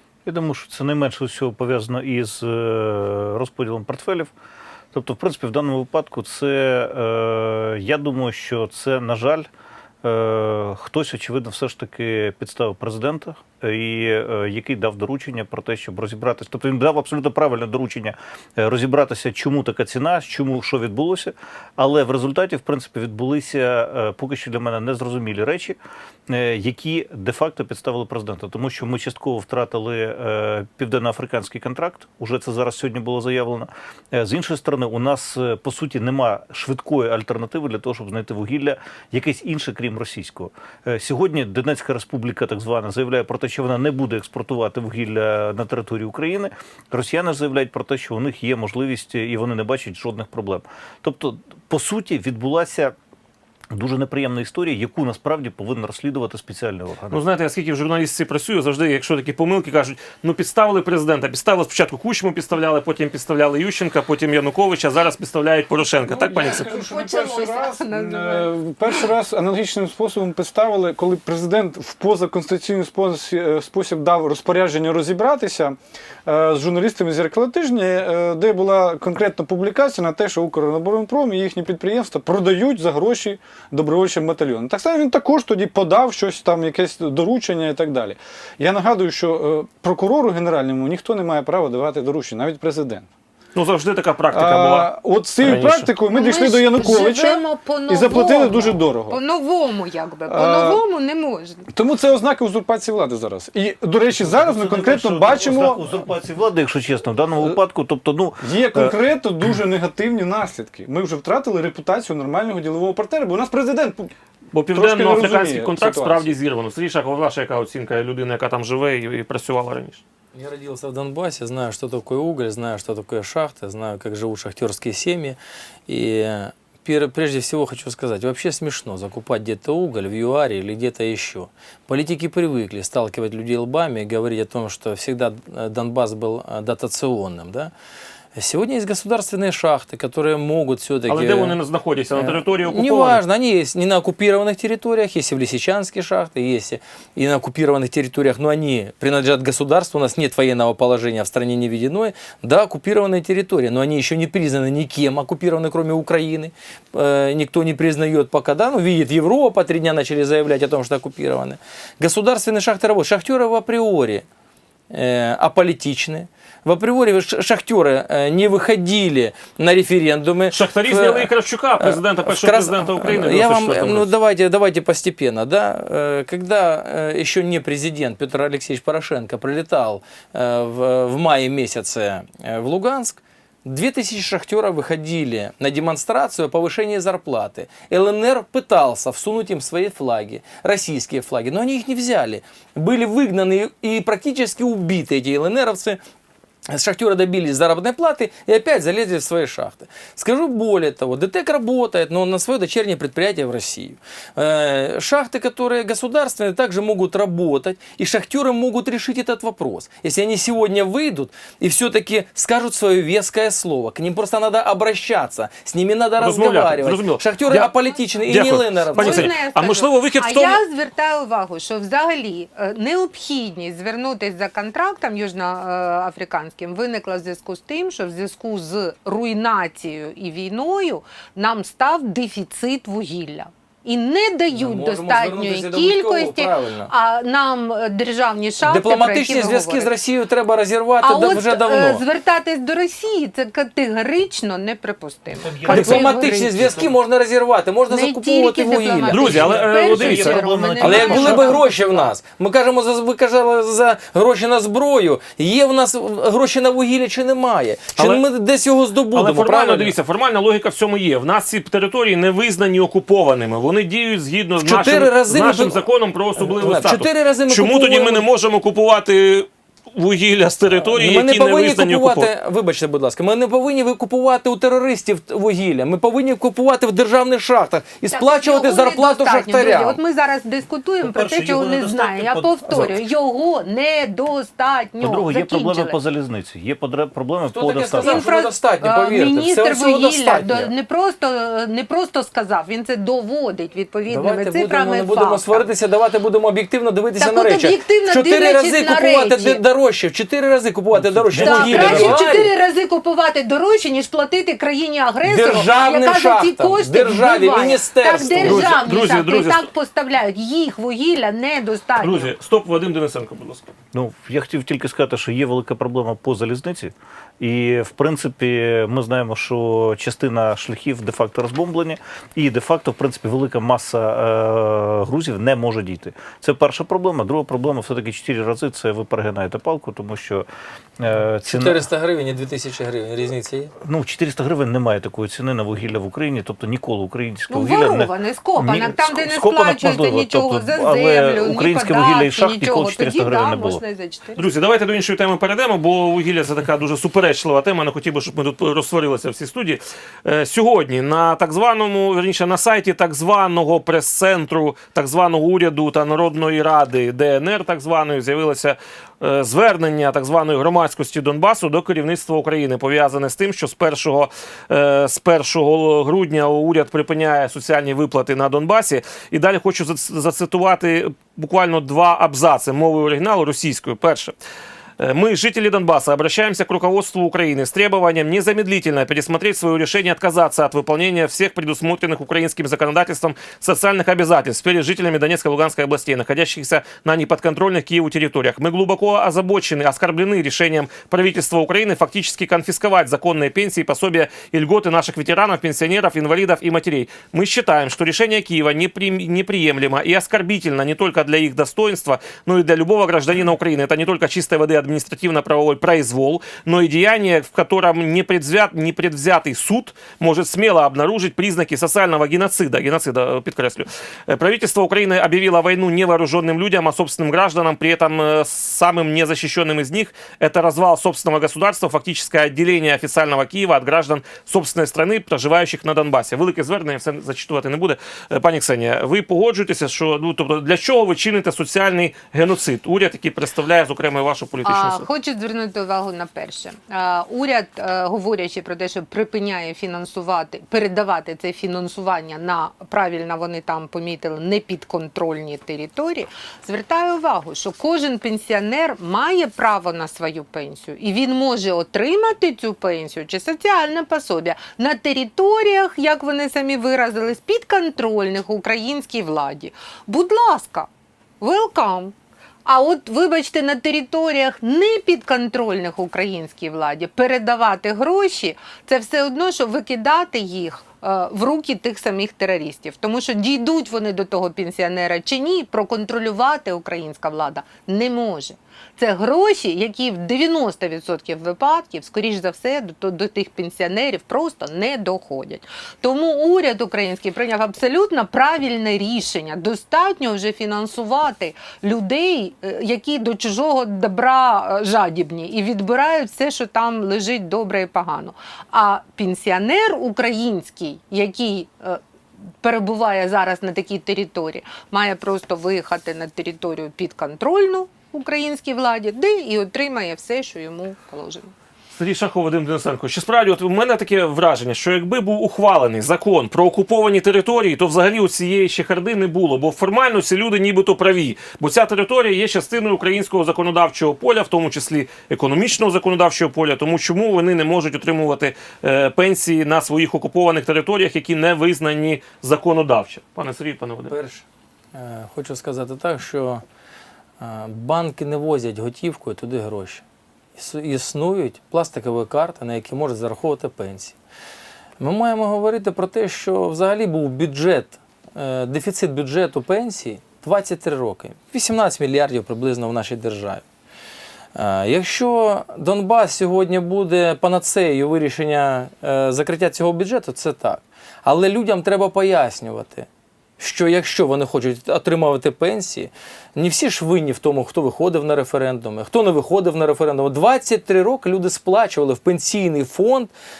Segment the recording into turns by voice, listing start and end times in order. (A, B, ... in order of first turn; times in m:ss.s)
0:00.2-0:04.3 A
0:04.9-0:09.5 A
0:10.0-0:25.8 A
0:26.3-0:52.9 A
0:53.7-0:57.2 A
0:57.1-1:06.7 B
1:06.1-1:33.0 C
1:06.4-1:09.0 D
1:33.5-1:34.9 B
1:34.3-1:39.2 C
1:35.4-1:35.9 B
1:36.1-1:41.6 D
1:40.2-1:40.8 C
1:41.7-1:46.0 C
1:44.1-1:49.0 A
1:48.4-1:54.1 C
1:54.5-2:00.0 B
1:54.7-1:56.3 C
2:00.3-2:17.7 E
2:18.4-2:21.6 E
2:21.1-2:23.2 B
2:22.1-2:44.2 E
2:44.9-3:16.0 E
2:50.5-2:54.1 B
3:16.7-3:39.3 E
3:36.2-3:37.7 B
3:38.2-3:40.6 B
3:38.9-3:59.9 D
3:54.5-3:56.9 E
3:58.6-4:02.0 E
4:01.0-4:06.8 D
4:05.3-4:06.9 A
4:05.7-4:09.4 E
4:07.9-4:12.1 D
4:09.1-4:10.4 B
4:09.3-4:11.6 A
4:10.8-4:19.9 E
4:18.0-4:18.2 B
4:19.1-4:32.3 B
4:24.6-4:25.8 E
4:26.4-4:28.2 E
4:30.7-4:40.0 E
4:38.1-4:46.0 D
4:41.0-4:43.0 A
4:45.0-4:48.2 A
4:47.5-4:50.7 E
4:48.0-4:55.7 D
4:54.1-5:02.5 E
4:57.2-4:59.6 D
5:01.0-5:02.3 A
5:01.3-5:12.3 D
5:05.2-5:08.8 E
5:08.3-5:09.6 B
5:12.0-5:13.7 B
5:13.9-5:30.5 A
5:31.0-5:31.8 A
5:31.2-5:33.7 E
5:33.8-5:43.8 A
5:37.5-5:44.4 D
5:44.3-6:14.3 B
6:15.0-7:15.0 B
7:14.6-7:42.1 D
7:42.6-8:22.0 D
8:22.6-8:31.5 D
8:31.9-8:54.1 B
8:54.1-8:56.6 E
8:57.4-9:00.0 E
9:00.6-9:04.1 E
9:05.0-9:13.6 E
9:14.5-9:23.1 E
9:23.6-9:33.3 E